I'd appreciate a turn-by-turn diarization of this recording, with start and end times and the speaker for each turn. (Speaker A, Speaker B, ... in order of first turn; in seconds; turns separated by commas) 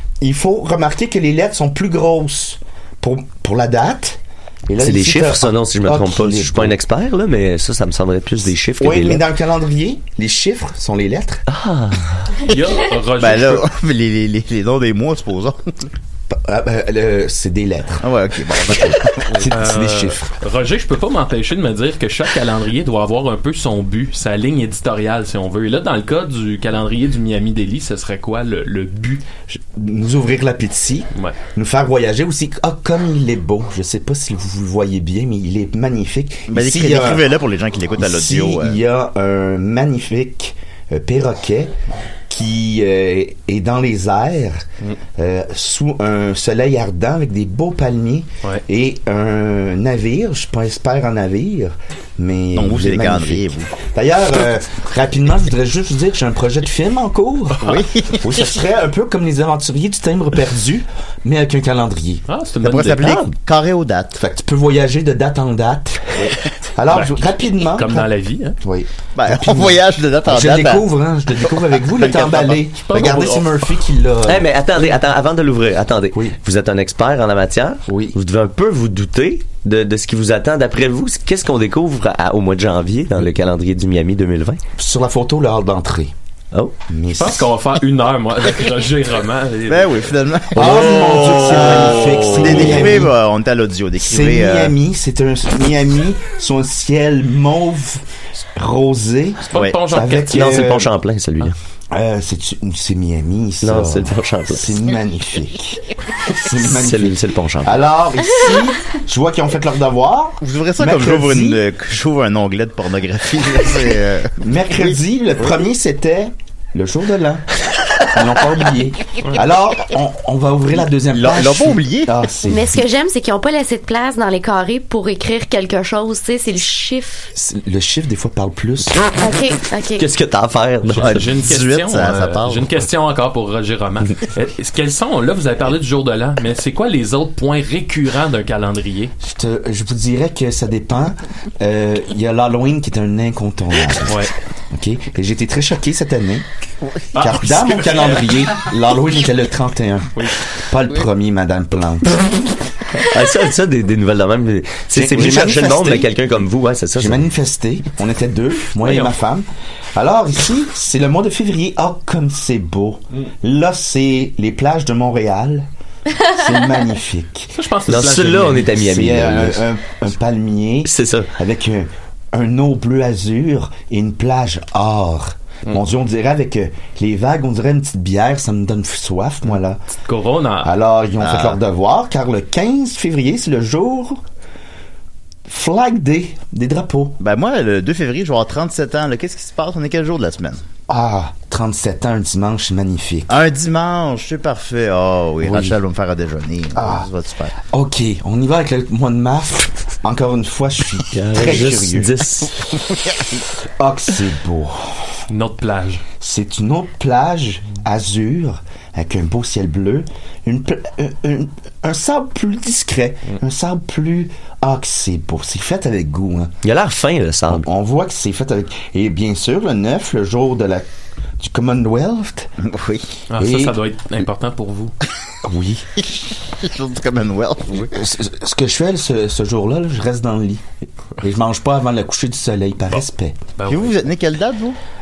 Speaker A: 0.2-6.7, Speaker B: 4.8-9.2, Speaker A: 8.8-11.4, Speaker B: 11.5-12.3, Speaker C: 12.4-13.6, Speaker D: 13.2-15.9, Speaker A: 16.3-18.1, Speaker D: 18.0-19.4, Speaker A: 18.7-20.3, Speaker C: 19.4-29.2, Speaker A: 29.5-37.3, Speaker D: 36.5-38.8, Speaker A: 38.0-41.7, Speaker A: 42.3-44.6, Speaker A: 45.1-62.2, Speaker D: 52.5-53.7, Speaker D: 57.6-58.2, Speaker C: 62.3-63.2, Speaker D: 62.6-64.2, Speaker B: 63.0-63.3, Speaker A: 64.2-68.1, Speaker C: 66.9-68.6, Speaker A: 68.6-74.5, Speaker D: 69.2-70.9, Speaker D: 71.6-72.6, Speaker C: 72.7-73.5, Speaker B: 74.2-84.6, Speaker A: 77.9-78.2, Speaker A: 84.8-86.1, Speaker A: 86.9-87.5, Speaker C: 87.2-90.0, Speaker D: 89.7-94.7, Speaker A: 90.5-93.1, Speaker A: 94.0-100.9, Speaker C: 99.5-100.6, Speaker B: 100.2-101.5, Speaker A: 101.9-111.6, Speaker B: 103.6-104.8, Speaker B: 106.6-107.8, Speaker D: 110.4-115.0, Speaker A: 114.4-117.4, Speaker A: 118.0-122.8, Speaker D: 121.1-122.2, Speaker E: 122.4-127.3, Speaker A: 127.3-129.0, Speaker E: 129.2-130.1, Speaker B: 130.0-131.2, Speaker C: 130.9-139.1, Speaker D: 131.0-132.7, Speaker A: 139.2-146.4, Speaker C: 144.1-144.3, Speaker C: 147.1-148.6, Speaker A: 147.1-152.2, Speaker B: 153.0-157.2, Speaker A: 154.9-156.1, Speaker A: 156.9-167.6, Speaker C: 158.8-159.1, Speaker C: 167.6-168.7, Speaker B: 167.9-169.6, Speaker A: 168.7-179.8, Speaker B: 170.8-171.3, Speaker C: 180.0-180.7, Speaker A: 180.6-184.2, Speaker D: 181.2-181.6, Speaker A: 185.4-187.2, Speaker D: 187.2-190.6, Speaker A: 190.9-193.3, Speaker D: 193.3-197.6, Speaker A: 195.4-195.8, Speaker A: 196.7-197.1, Speaker A: 197.7-202.5, Speaker B: 201.1-202.5, Speaker A: 203.8-205.2, Speaker C: 205.3-206.0, Speaker A: 206.2-216.5, Speaker B: 216.6-217.6, Speaker A: 217.5-220.8, Speaker A: 221.4-222.5, Speaker D: 222.6-223.1, Speaker C: 223.3-224.9, Speaker A: 223.4-223.8, Speaker A: 225.4-225.9, Speaker D: 226.0-227.9, Speaker A: 227.8-230.6, Speaker A: 231.2-233.4, Speaker C: 233.6-234.0, Speaker D: 233.7-234.8